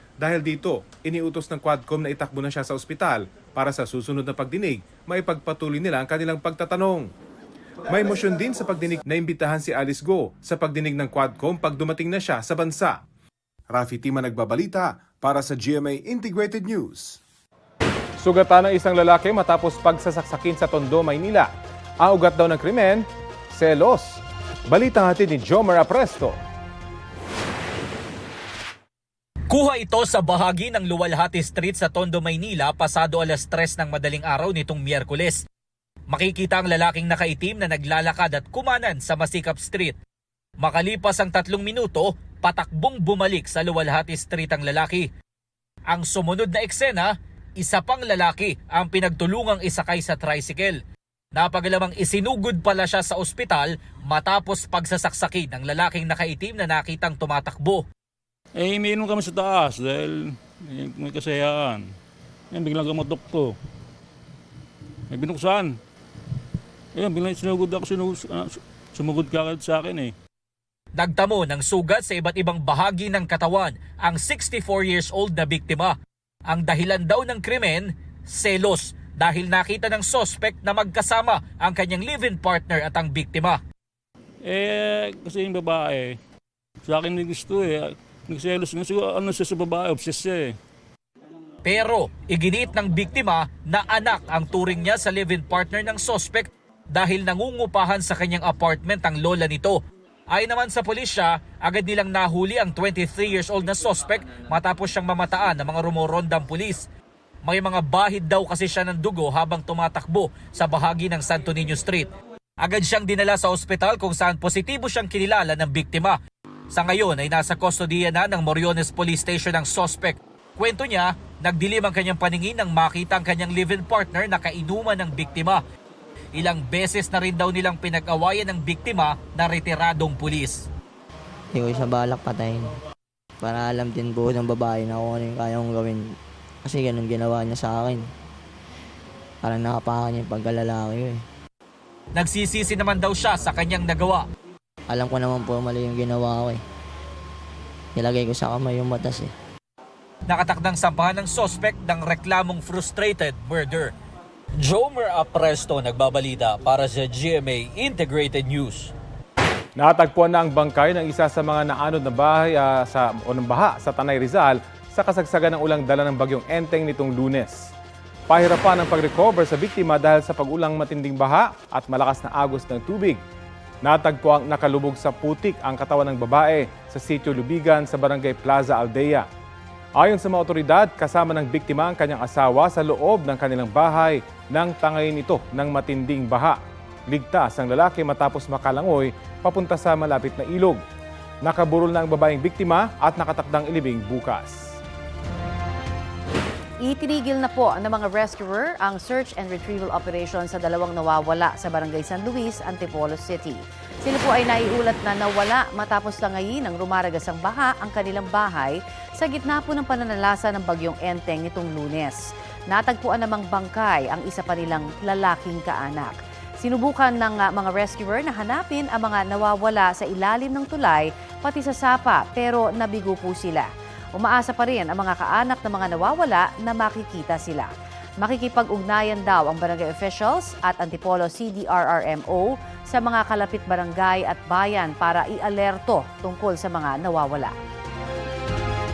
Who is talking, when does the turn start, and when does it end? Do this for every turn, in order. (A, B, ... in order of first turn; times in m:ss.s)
0:00.2-0:07.1 A
0:07.8-0:13.0 A
0:13.7-0:17.2 A
0:18.2-0:21.5 A
0:22.0-0:26.4 A
0:29.5-0:35.4 B
0:36.1-0:40.0 B
0:40.6-0:45.1 B
0:45.9-0:47.1 B
0:47.6-0:50.8 B
0:51.4-0:57.8 B
0:58.6-1:01.9 C
1:02.5-1:03.6 C
1:05.1-1:05.8 C
1:07.0-1:10.2 C
1:11.0-1:16.0 B
1:16.5-1:23.6 B
1:24.4-1:26.2 C
1:26.8-1:30.6 C
1:31.6-1:39.8 B
1:40.3-1:46.9 B
1:47.4-1:52.1 B
1:52.6-1:56.2 B
1:56.7-2:05.6 B
2:06.4-2:10.7 B
2:11.5-2:12.8 D
2:13.4-2:18.1 D
2:19.4-2:21.2 D
2:22.2-2:24.3 B
2:24.9-2:26.6 D
2:28.0-2:29.3 D
2:30.3-2:33.9 B
2:34.6-2:38.9 B
2:39.8-2:47.7 A
2:48.3-2:53.2 A
2:53.8-2:59.3 A
3:00.0-3:06.6 A
3:07.1-3:10.8 A
3:11.4-3:14.8 A
3:16.8-3:47.7 E
3:48.2-3:57.5 E